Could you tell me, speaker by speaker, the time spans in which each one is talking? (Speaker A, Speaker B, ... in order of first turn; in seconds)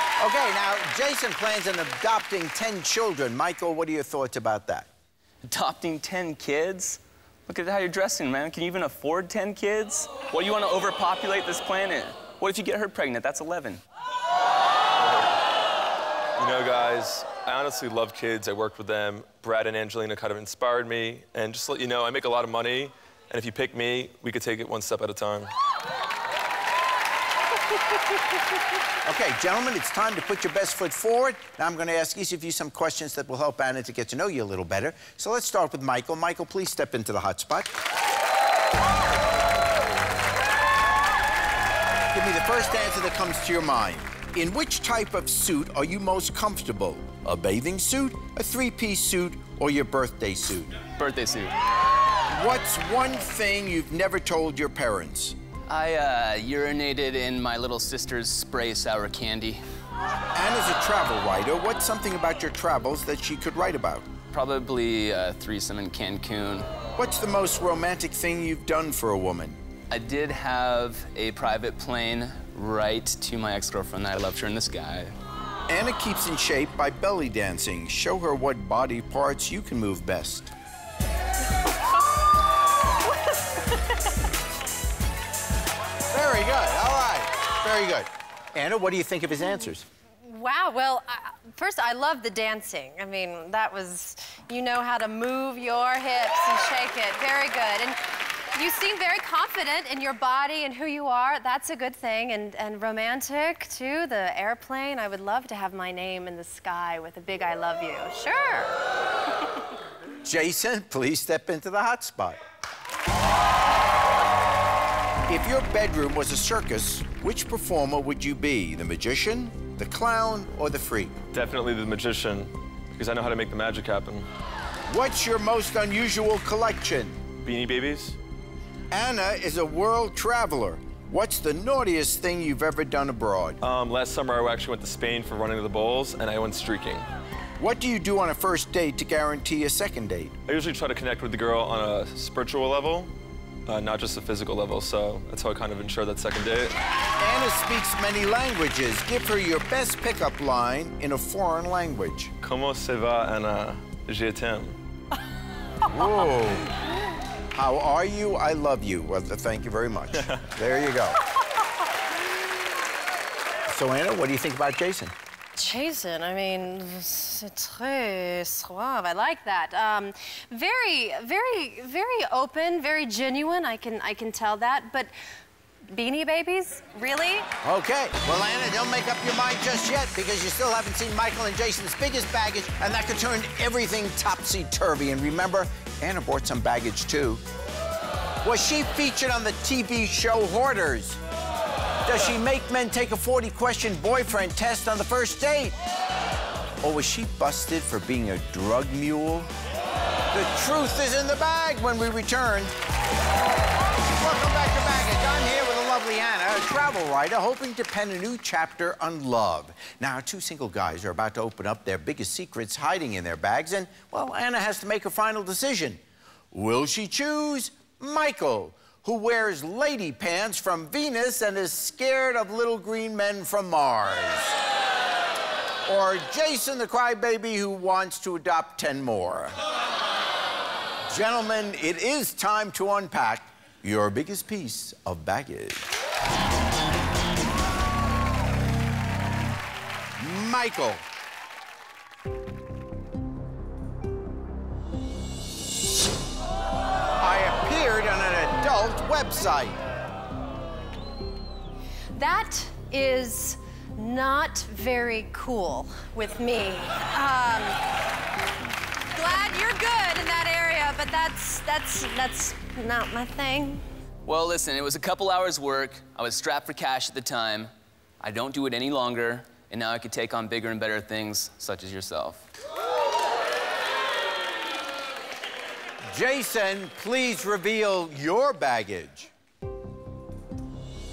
Speaker A: 0.2-4.9, 29.0-37.7, 42.1-50.8, 52.3-55.4, 60.3-64.1, 67.0-69.6, 75.7-80.5, 86.1-89.8, 110.2-112.4, 115.3-121.1, 124.9-127.2, 128.9-133.6, 137.6-140.3, 147.2-152.3, 155.9-156.7, 157.5-161.2, 163.7-165.1, 177.6-187.4, 188.4-191.2, 192.0-195.8, 196.8-199.5, 200.3-202.7, 204.1-216.0, 216.5-224.6, 225.8-229.6, 231.1-235.9, 240.2-241.0, 247.2-249.8, 276.1-279.3
Speaker B: 5.4-13.8, 51.0-51.5, 55.7-59.6, 64.3-66.7, 69.9-75.1, 264.2-272.5
Speaker C: 15.0-15.4, 16.4-25.5, 121.3-124.3, 127.4-128.2, 133.6-137.1, 140.5-143.1, 143.7-146.7, 152.4-154.8
Speaker D: 90.2-98.0, 98.5-108.8, 165.6-175.1, 175.9-177.5, 252.1-257.8, 259.1-263.8